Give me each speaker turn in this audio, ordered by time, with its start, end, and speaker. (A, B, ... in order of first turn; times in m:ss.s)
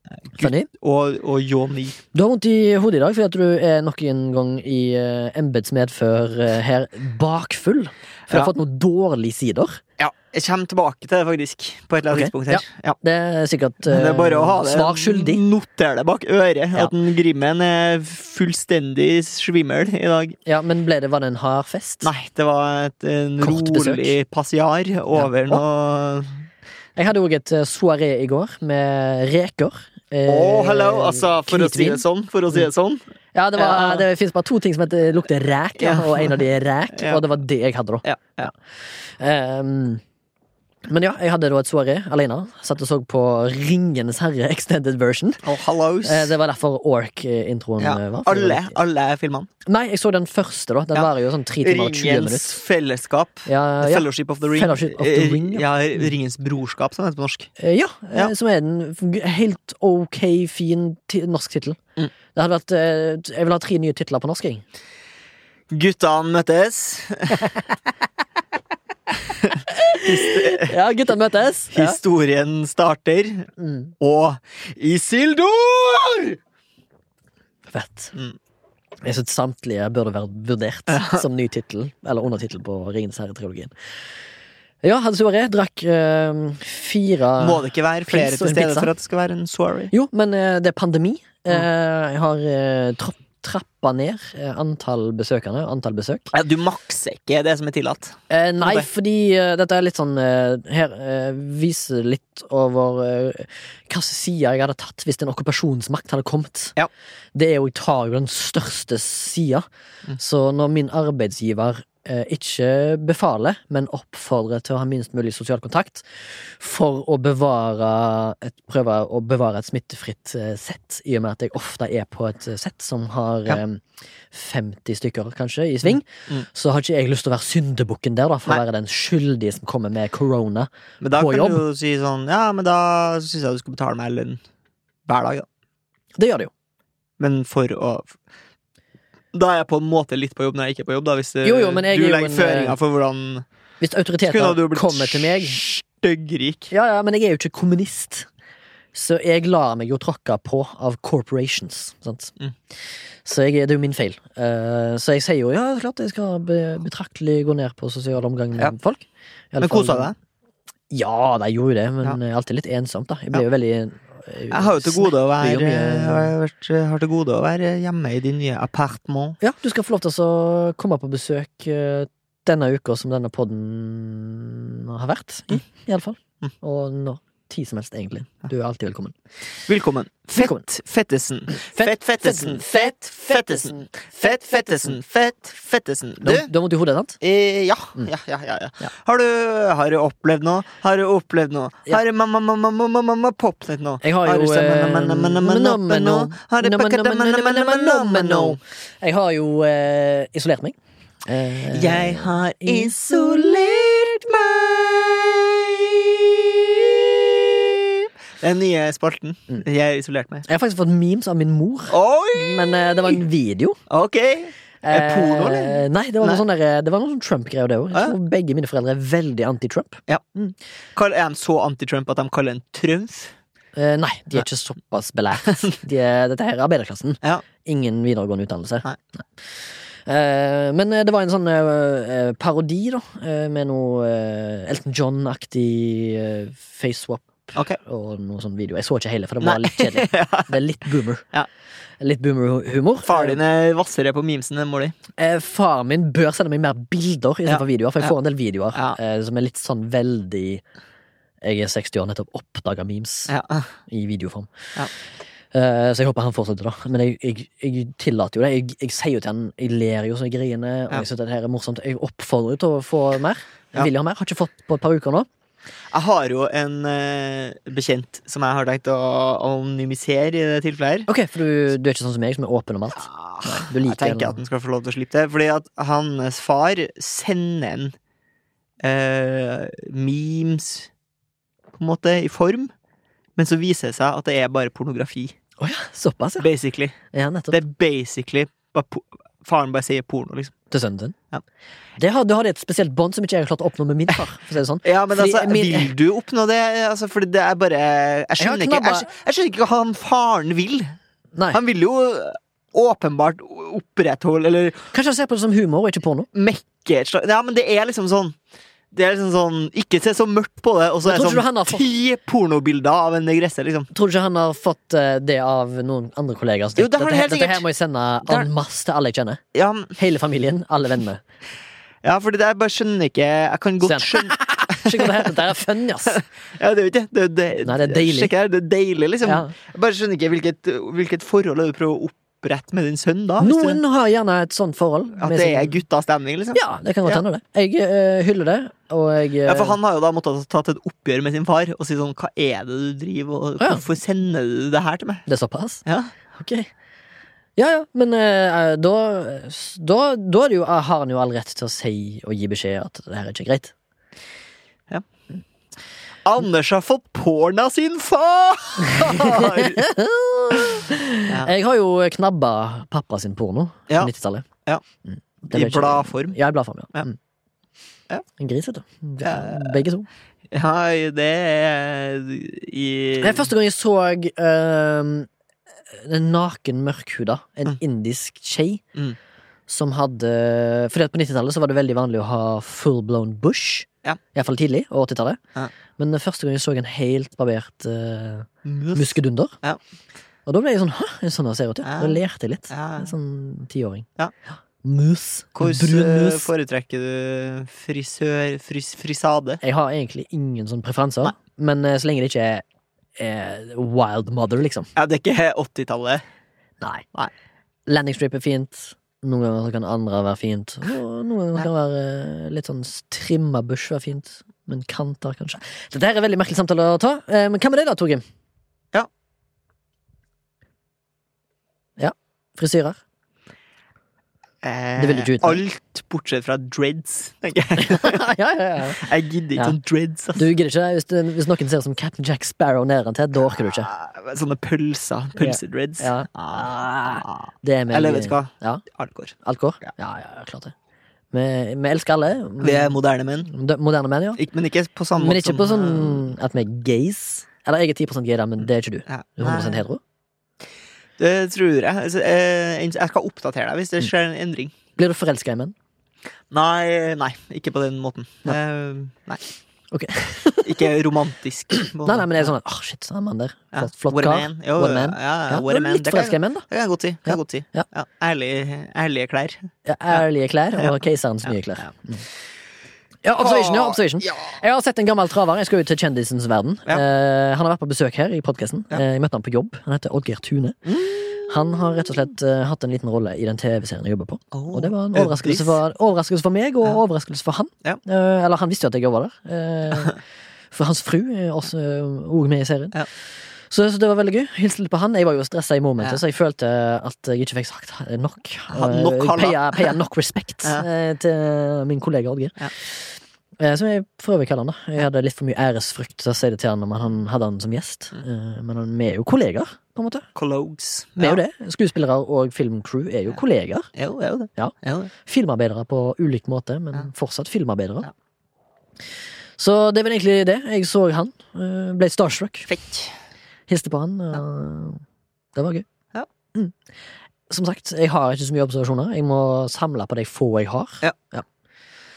0:00.3-0:02.0 A
0:00.4-0:00.7 B
0:02.1-0:09.8 B
0:10.0-0:13.0 A
0:12.1-0:15.4 B
0:13.8-0:20.4 A
0:20.5-0:22.1 B
0:22.0-0:26.4 A
0:23.4-0:24.1 B
0:25.2-0:25.6 B
0:27.0-0:32.6 B
0:30.3-0:33.0 A
0:33.3-0:38.5 B
0:33.6-0:34.0 A
0:35.8-0:37.2 A
0:38.0-0:38.5 A
0:39.2-0:40.0 B
0:40.9-0:45.5 B
0:45.4-0:46.3 A
0:46.0-0:48.8 B
0:47.8-0:49.5 A
0:49.7-0:52.6 B
0:51.6-0:57.5 A
0:53.5-0:55.7 B
0:57.6-1:01.8 B
1:02.3-1:04.6 B
1:05.7-1:07.4 A
1:09.4-1:10.7 A
1:09.7-1:12.0 B
1:11.7-1:16.4 A
1:13.6-1:13.9 B
1:17.7-1:18.2 B
1:19.0-1:23.7 B
1:20.9-1:21.2 A
1:24.8-1:28.9 B
1:27.4-1:29.9 A
1:29.9-1:36.3 B
1:36.3-1:38.9 A
1:38.3-1:46.8 B
1:47.4-1:49.7 B
1:50.2-2:11.6 B
2:05.9-2:06.4 A
2:11.0-2:14.4 A
2:15.1-2:15.5 A
2:16.2-2:16.5 B
2:17.2-2:18.2 A
2:19.3-2:23.4 A
2:21.4-2:22.8 B
2:23.8-2:25.6 B
2:24.2-2:26.7 A
2:26.7-2:28.3 B
2:28.9-2:32.4 B
2:33.2-2:40.1 B
2:39.6-2:40.2 A
2:40.9-2:46.3 B
2:44.5-2:49.4 A
2:49.4-2:59.2 B
2:59.7-3:06.5 A
3:00.4-3:00.6 B
3:01.5-3:05.0 B
3:06.2-3:07.2 B
3:07.2-3:18.6 A
3:14.0-3:23.5 B
3:21.7-3:30.5 A
3:30.5-3:33.8 B
3:31.9-3:33.2 A
3:33.9-3:36.4 A
3:34.8-3:40.6 B
3:41.0-3:43.3 A
3:43.8-3:48.9 B
3:50.1-4:01.3 B
3:59.4-4:00.6 A
4:02.0-4:03.4 B
4:03.0-4:05.0 A
4:05.2-4:10.6 B
4:07.5-4:08.1 A
4:11.4-4:13.3 B
4:13.3-4:13.7 A
4:13.9-4:14.5 B
4:15.5-4:25.3 B
4:25.9-4:31.1 A
4:31.1-4:34.4 B
4:33.0-4:38.0 A
4:38.8-4:40.9 A
4:41.8-4:42.7 A
4:43.4-4:45.4 A
4:45.6-4:46.5 B
4:46.4-4:47.0 A
4:47.1-4:47.6 B
4:47.5-4:50.5 A
4:50.7-4:51.2 B
4:52.0-4:55.9 B
4:54.8-5:00.9 A
4:58.4-4:59.1 B
5:01.5-5:04.9 A
5:04.9-5:06.3 B
5:06.3-5:08.4 A
5:08.9-5:13.9 A
5:11.0-5:11.9 B
5:13.9-5:19.4 B
5:16.8-5:17.6 A
5:19.5-5:20.0 A
5:20.0-5:21.2 B
5:22.0-5:25.4 A
5:23.8-5:26.2 B
5:26.1-5:33.8 A
5:27.6-5:28.3 B
5:29.2-5:29.5 B
5:33.4-5:35.8 B
5:35.2-5:37.2 A
5:36.5-5:39.8 B
5:39.5-5:45.2 A
5:45.3-5:46.7 B
5:45.8-5:46.1 A
5:47.6-5:53.7 B
5:56.2-5:59.8 A
5:58.8-6:04.5 B
6:00.6-6:01.5 A
6:05.0-6:07.2 B
6:05.5-6:06.4 A
6:08.4-6:10.1 B
6:09.2-6:09.8 A
6:10.5-6:13.5 A
6:13.2-6:15.3 B
6:15.9-6:18.8 B
6:19.7-6:25.4 B
6:26.0-6:29.6 B
6:28.6-6:29.8 A
6:30.5-6:34.1 B
6:31.8-6:33.1 A
6:34.8-6:36.5 B
6:35.6-6:39.6 A
6:39.6-6:42.6 B
6:43.2-6:44.9 B
6:45.0-6:46.2 A
6:46.8-6:47.1 B
6:47.9-6:58.2 B
7:02.0-7:03.0 B
7:04.6-7:08.2 A
7:05.0-7:05.6 B
7:07.8-7:09.8 B
7:08.9-7:10.5 A
7:10.4-7:13.9 B
7:13.5-7:19.4 A
7:15.4-7:18.8 B
7:19.4-7:20.8 B
7:21.3-7:24.4 B
7:22.6-7:23.5 A
7:24.4-7:26.3 A
7:25.2-7:30.0 B
7:29.1-7:29.8 A
7:31.2-7:34.8 A
7:35.0-7:35.8 B
7:36.5-7:39.4 A
7:39.9-7:40.9 B
7:40.6-7:42.5 A
7:41.8-7:46.7 B
7:43.7-7:50.2 A
7:47.3-7:47.9 B
7:49.8-7:52.2 B
7:53.2-8:10.2 B
7:53.4-7:54.6 A
8:00.9-8:02.0 A
8:04.5-8:05.8 A
8:10.7-8:13.0 B
8:13.7-8:30.3 B
8:18.7-8:20.0 A
8:30.4-8:31.4 A
8:31.2-8:33.9 B
8:34.0-8:35.1 A
8:34.6-8:38.1 B
8:39.6-8:42.8 B
8:42.7-8:43.1 A
8:43.7-8:45.0 B
8:45.6-8:45.9 B
8:47.5-8:51.4 B